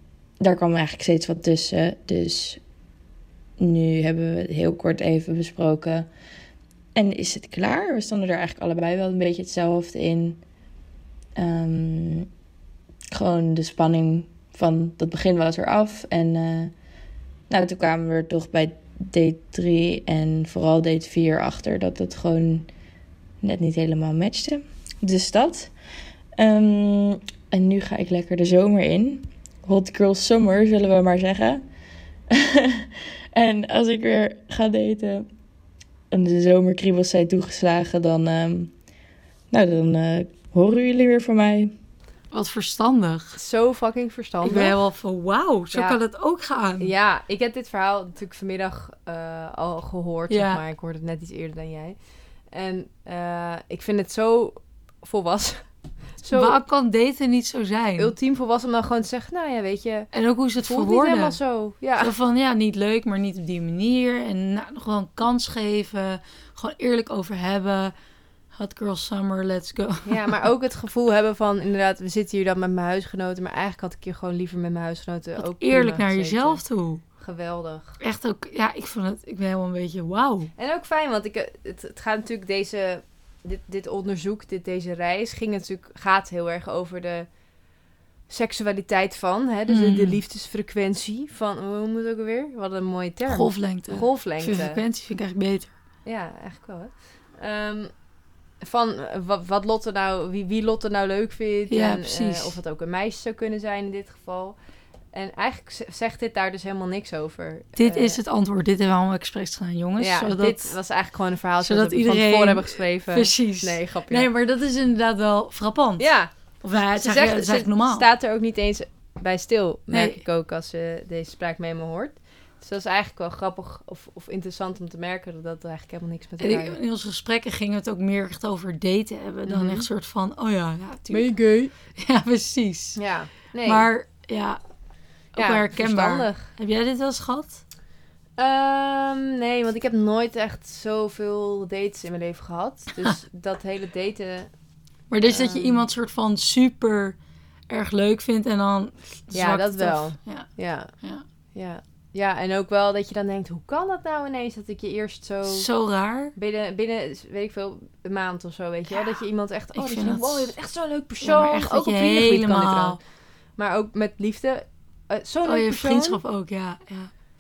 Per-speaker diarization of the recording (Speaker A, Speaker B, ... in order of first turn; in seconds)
Speaker A: 0.4-2.6, 3.6-6.1, 6.9-10.4, 11.3-12.3, 13.1-16.7, 17.5-22.7, 23.4-25.7, 26.4-31.6, 32.3-35.3, 36.1-38.7, 39.5-41.7
Speaker B: 42.3-43.4, 44.4-46.9, 50.3-50.6, 56.3-58.1, 60.1-61.4, 62.0-67.9, 68.5-70.3, 75.4-77.0, 78.0-80.5, 89.7-90.2, 93.3-95.7, 101.7-102.5, 107.8-110.8, 111.6-116.1, 116.6-118.0, 119.9-120.2, 126.4-131.3, 131.9-133.0, 133.6-134.6, 135.3-137.6, 145.1-147.2, 147.7-150.5, 155.4-156.3, 159.7-160.5, 161.2-163.0, 165.4-167.1
Speaker C: 43.4-44.8, 45.7-46.0, 46.8-52.0, 52.5-55.6, 56.2-56.6, 58.0-60.1, 60.6-62.1, 70.0-76.6, 77.2-78.0, 80.5-87.3, 88.3-94.8, 96.0-97.9, 98.6-104.5, 105.1-108.2, 110.0-114.3, 116.0-116.3, 116.9-126.8, 129.5-129.9, 131.1-131.7, 132.9-133.9, 135.3-136.5, 138.4-144.5, 145.2-145.9, 149.3-150.9, 151.5-155.7, 156.3-163.0, 163.6-166.2